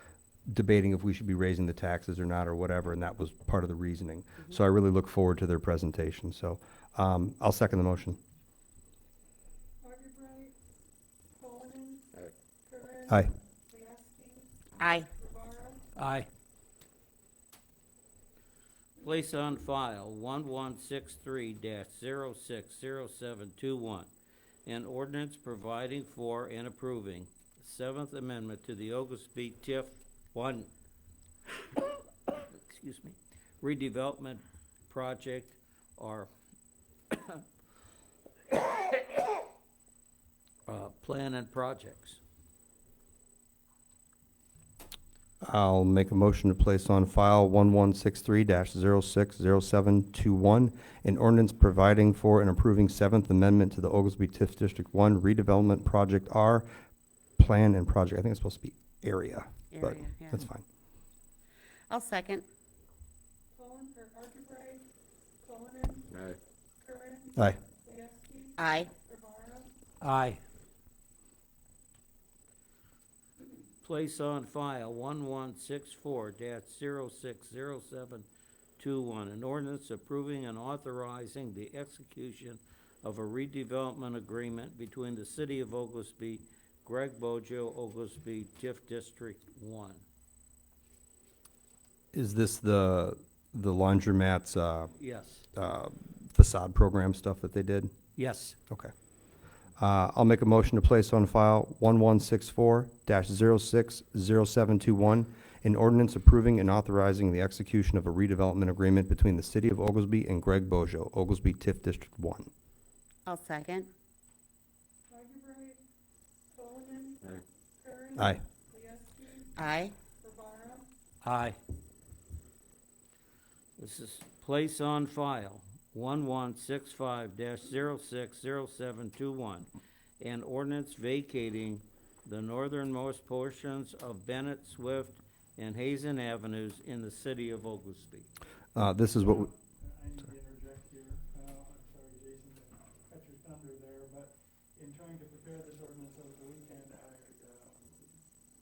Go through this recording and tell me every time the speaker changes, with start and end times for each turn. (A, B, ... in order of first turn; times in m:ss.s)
0:00.5-0:08.2 A
0:09.8-0:10.5 B
0:11.4-0:15.8 B
0:14.8-0:15.1 C
0:16.0-0:16.3 D
0:19.0-0:24.1 D
0:24.6-0:30.7 D
0:32.3-0:36.3 D
0:37.1-0:37.4 D
0:38.5-0:39.4 D
0:40.7-0:42.2 D
0:45.4-0:56.7 A
0:57.4-1:00.6 A
0:59.7-1:00.4 C
1:01.9-1:02.4 C
1:03.5-1:04.8 B
1:05.4-1:09.7 B
1:08.6-1:08.9 C
1:10.0-1:10.4 D
1:13.8-1:18.3 D
1:18.8-1:30.0 D
1:32.1-1:34.9 A
1:35.0-1:35.5 D
1:35.5-1:37.9 A
1:38.2-1:38.6 D
1:39.8-1:52.5 A
1:53.2-1:53.9 C
1:55.1-1:55.8 B
1:56.5-1:59.5 B
1:58.2-1:58.4 A
1:59.6-1:59.9 C
2:00.2-2:00.9 B
2:01.2-2:01.6 D
2:03.8-2:09.7 D
2:10.2-2:18.3 D
2:18.8-2:19.5 A
2:19.2-2:28.2 E